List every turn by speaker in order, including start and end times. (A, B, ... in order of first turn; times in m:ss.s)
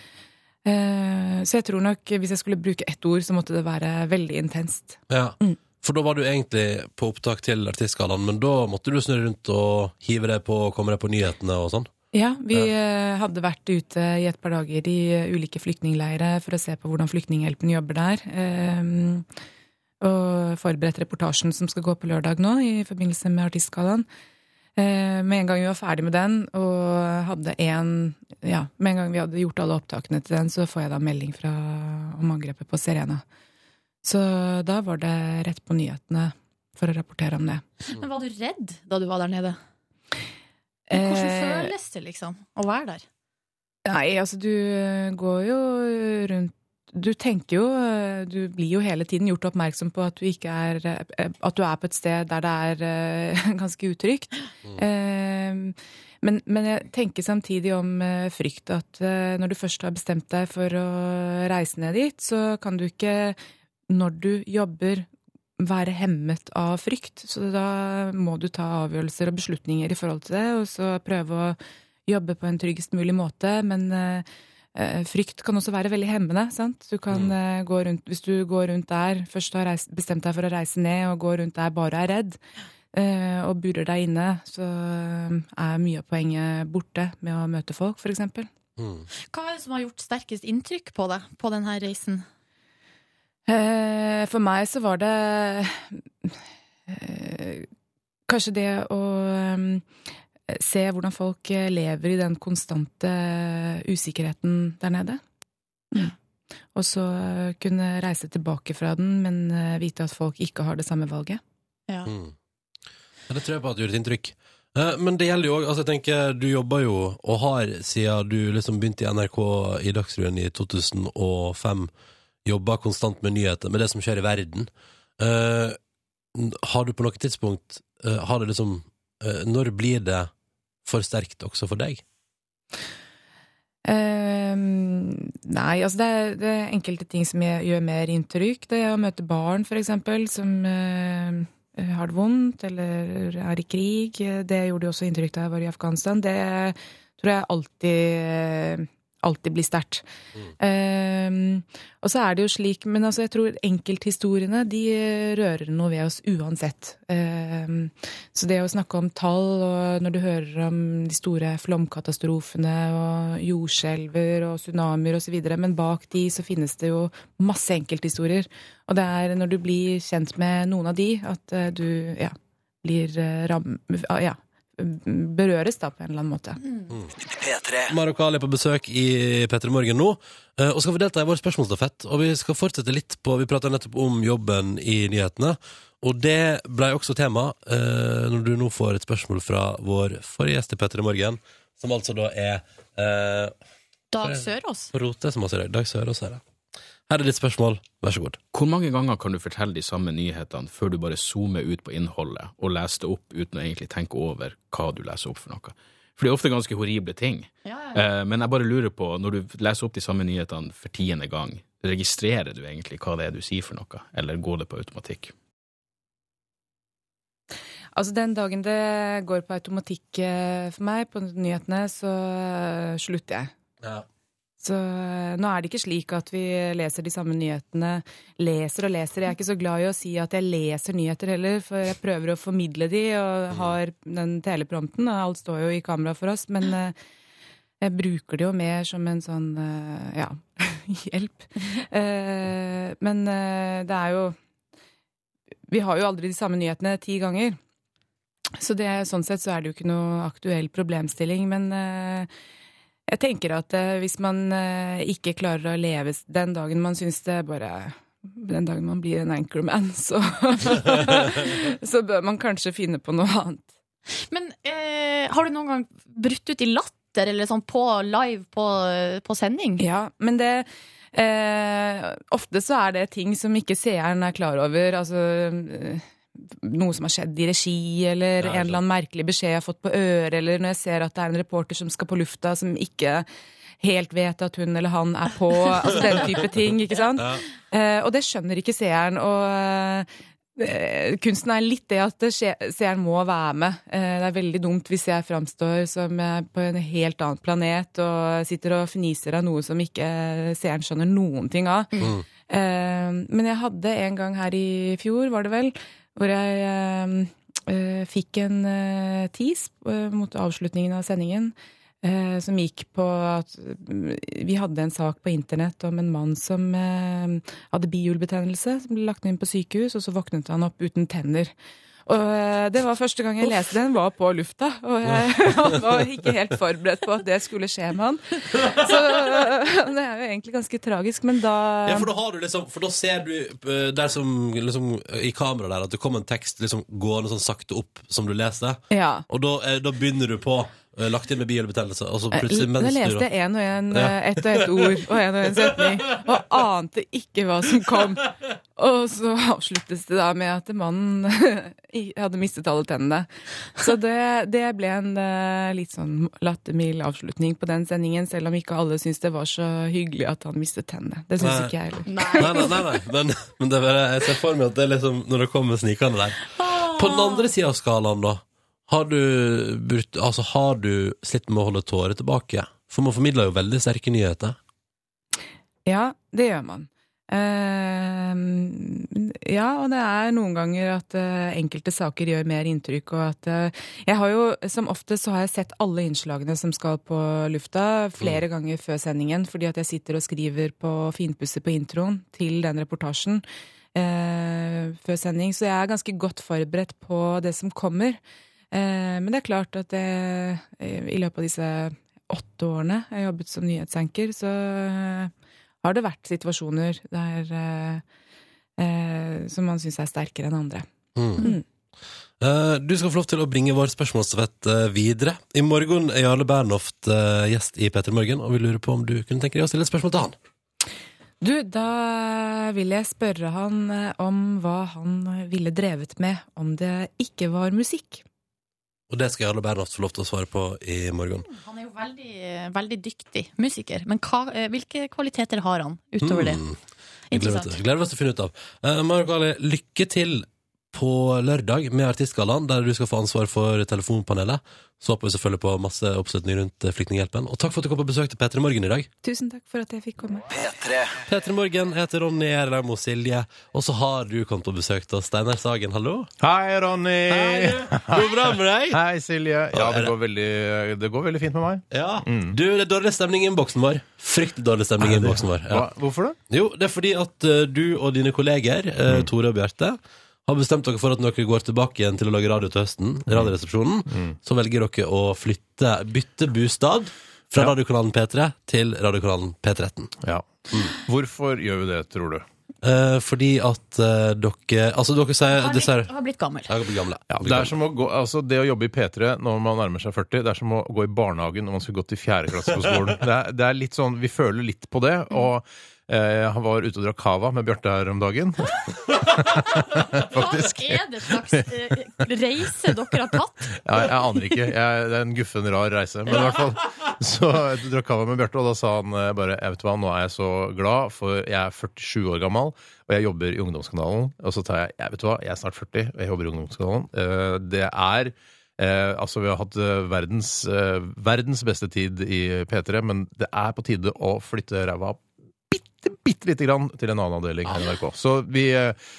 0:00.6-0:05.6 A
0:05.1-0:11.9 B
0:12.1-0:19.2 A
0:20.0-0:24.0 A
0:24.8-0:33.2 A
0:34.0-0:37.6 A
0:37.8-0:39.6 C
0:40.9-0:41.7 A
0:40.9-0:43.0 C
0:43.8-1:03.4 A
1:03.9-1:05.1 A
1:05.6-1:22.4 A
1:22.9-1:28.5 A
1:28.8-1:29.1 B
1:29.3-1:32.2 C
1:33.5-1:36.3 A
1:36.9-1:37.7 A
1:38.3-1:39.8 A
1:40.5-1:45.2 A
1:46.7-1:51.4 A
1:52.0-1:52.3 B
1:53.3-2:01.9 B
2:02.4-2:05.8 B
2:06.3-2:10.3 B
2:10.8-2:12.0 B
2:13.8-2:30.0 A
2:30.6-2:56.6 A
2:57.7-3:13.6 B
3:14.1-3:14.9 C
3:14.2-3:16.4 B
3:17.1-3:18.4 B
3:18.5-3:35.3 D
3:27.6-3:28.0 C
3:37.9-3:43.5 A
3:44.6-3:56.9 A
3:57.8-4:04.4 A
4:05.7-4:07.6 A
4:08.6-4:12.3 A
4:13.1-4:23.7 A
4:24.2-4:29.8 C
4:29.8-4:43.3 A
4:38.4-4:38.8 B
4:43.8-5:01.9 A
4:45.9-4:46.4 B
4:47.2-4:47.4 B
5:02.0-5:02.2 B
5:02.5-5:21.5 A
5:22.0-5:32.1 A
5:25.1-5:25.7 B
5:28.5-5:29.2 B
5:31.8-5:43.3 B
5:38.9-5:39.2 A
5:42.3-6:02.7 A
5:43.9-5:46.1 B
6:01.4-6:01.7 B
6:02.1-6:02.7 C
6:02.3-6:14.6 B
6:06.6-6:07.4 C
6:15.8-6:33.4 A
6:33.9-6:38.2 A
6:38.7-6:48.0 A
6:48.8-6:50.9 A
6:51.2-6:51.5 B
6:51.4-6:51.6 A
6:52.4-7:00.4 B
7:01.4-7:08.2 A
7:09.1-7:11.5 B
7:11.4-7:16.6 C
7:16.2-7:16.8 B
7:17.3-7:17.8 C
7:17.3-7:29.1 B
7:29.2-7:30.5 A
7:31.2-7:36.3 B
7:36.4-7:42.6 E
7:37.3-7:39.0 B
7:39.7-7:40.1 B
7:41.9-7:45.9 B
7:45.0-7:46.4 E
7:46.5-8:00.1 B
7:53.3-7:53.5 E
7:54.1-7:54.4 E
8:00.2-8:02.4 E
8:02.8-8:06.1 B
8:05.5-8:06.7 C
8:06.7-8:07.8 B
8:07.3-8:21.0 E
8:20.3-8:23.8 C
8:23.8-8:49.0 E
8:47.6-8:47.9 B